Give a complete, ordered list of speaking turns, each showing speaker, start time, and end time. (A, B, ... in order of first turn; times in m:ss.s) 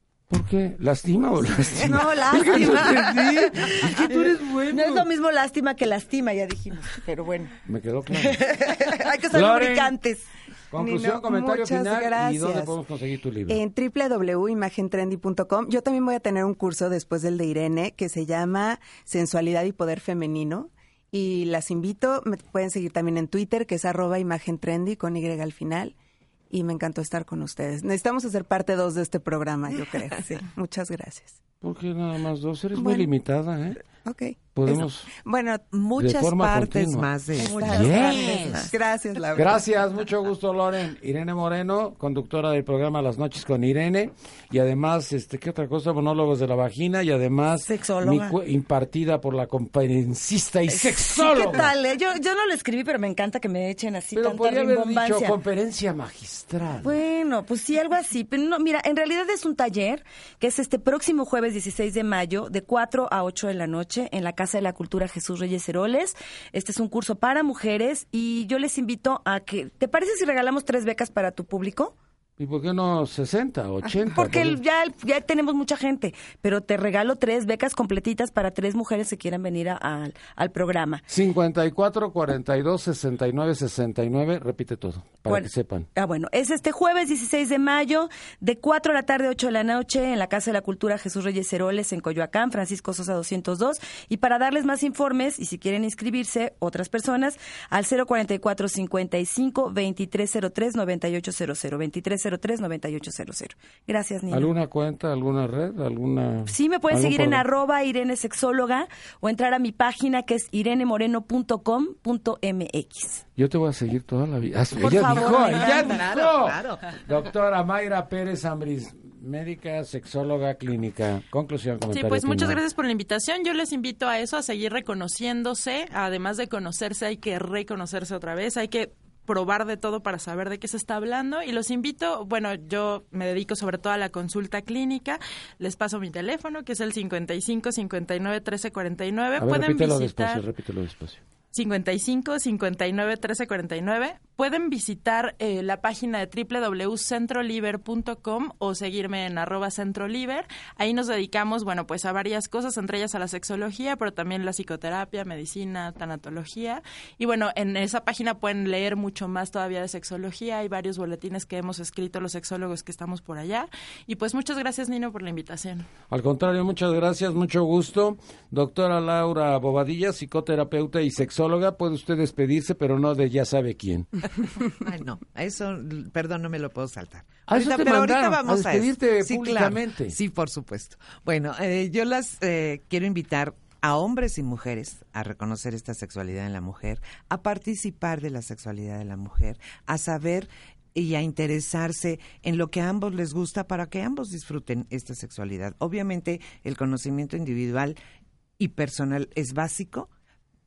0:00.3-0:05.1 A
0:01.7-0:04.2 B
0:01.8-0:02.6 C
0:04.7-0:07.5 B
0:07.6-0:08.6 A
0:08.1-0:10.3 B
0:09.3-0:10.0 A
0:10.7-0:13.6 A
0:10.8-0:12.8 C
0:13.5-0:25.9 C
0:26.5-0:31.4 C
0:31.6-0:33.8 A
0:32.8-0:33.1 C
0:34.0-0:35.6 C
0:34.5-0:35.1 A
0:35.7-0:37.8 D
0:36.0-0:38.7 A
0:37.3-0:39.7 C
0:37.4-0:38.7 B
0:39.3-0:51.7 A
0:47.6-0:48.4 B
0:50.7-0:55.4 B
0:54.1-0:57.0 A
0:56.8-1:11.9 B
1:12.4-1:14.6 A
1:14.0-1:21.0 B
1:21.1-1:25.9 A
1:25.2-1:44.5 B
1:44.3-1:47.4 A
1:46.5-1:53.2 B
1:53.4-2:02.6 A
1:54.8-1:56.0 B
1:55.6-1:56.8 D
2:01.9-2:20.4 E
2:19.4-2:21.2 A
2:21.5-2:45.9 E
2:46.1-2:54.1 A
2:54.7-3:18.0 D
2:57.5-3:00.2 A
3:18.6-3:20.1 D